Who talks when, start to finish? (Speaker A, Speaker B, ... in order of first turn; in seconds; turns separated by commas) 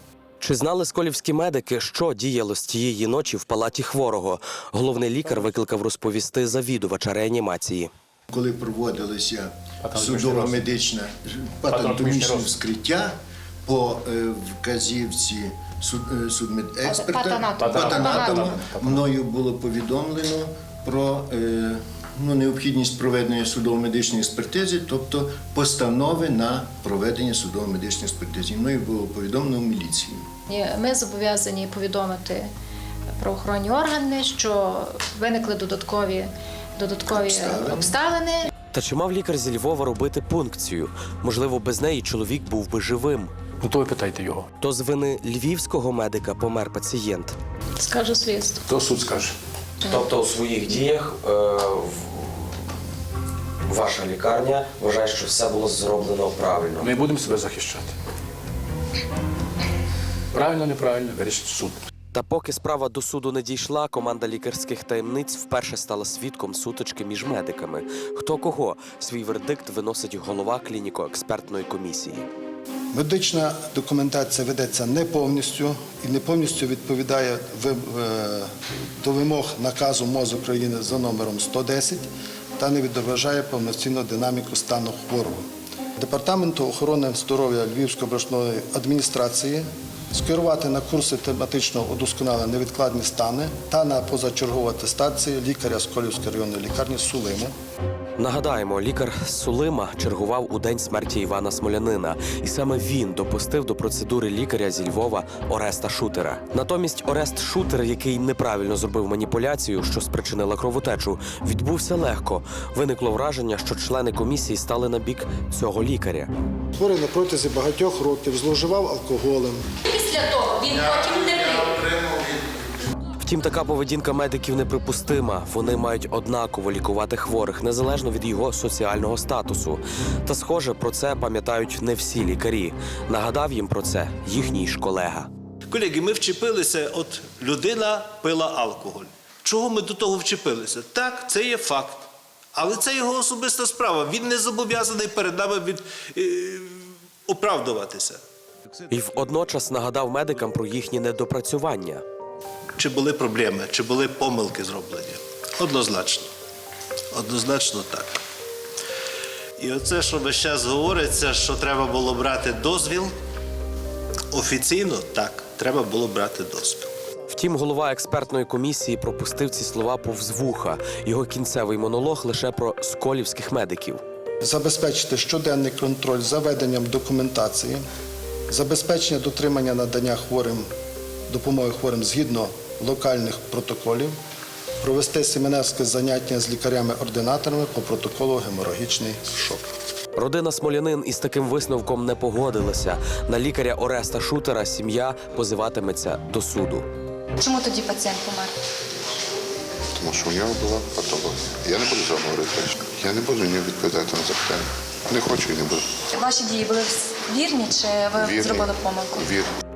Speaker A: 0.4-7.9, Speaker B: 8.3-30.2, Speaker C: 9.8-10.6, Speaker C: 11.7-12.5, Speaker D: 16.8-18.5, Speaker C: 17.6-19.1, Speaker D: 30.5-32.5, Speaker D: 33.2-38.5, Speaker B: 37.1-37.9, Speaker A: 38.7-43.3, Speaker C: 43.6-44.5, Speaker A: 44.6-47.4, Speaker D: 47.8-48.6, Speaker C: 48.6-49.4, Speaker A: 49.8-52.5, Speaker A: 53.7-56.9, Speaker C: 56.8-57.9, Speaker C: 60.3-61.8, Speaker A: 62.1-72.3, Speaker E: 72.9-78.5, Speaker E: 79.0-82.0, Speaker E: 82.6-85.5, Speaker E: 86.0-97.5, Speaker A: 98.2-116.3, Speaker E: 116.7-119.6, Speaker F: 119.9-121.9, Speaker A: 123.2-135.3, Speaker G: 135.7-146.6, Speaker G: 147.3-148.2, Speaker A: 148.9-152.0, Speaker G: 152.8-156.3, Speaker G: 157.1-158.1, Speaker G: 159.6-163.1, Speaker G: 164.3-166.9, Speaker A: 167.3-174.0, Speaker E: 174.4-177.8, Speaker E: 178.5-180.6, Speaker E: 181.3-184.1, Speaker E: 184.8-189.3, Speaker A: 190.1-196.9, Speaker H: 197.4-198.5, Speaker I: 199.9-205.8, Speaker H: 206.1-209.2, Speaker I: 208.2-209.5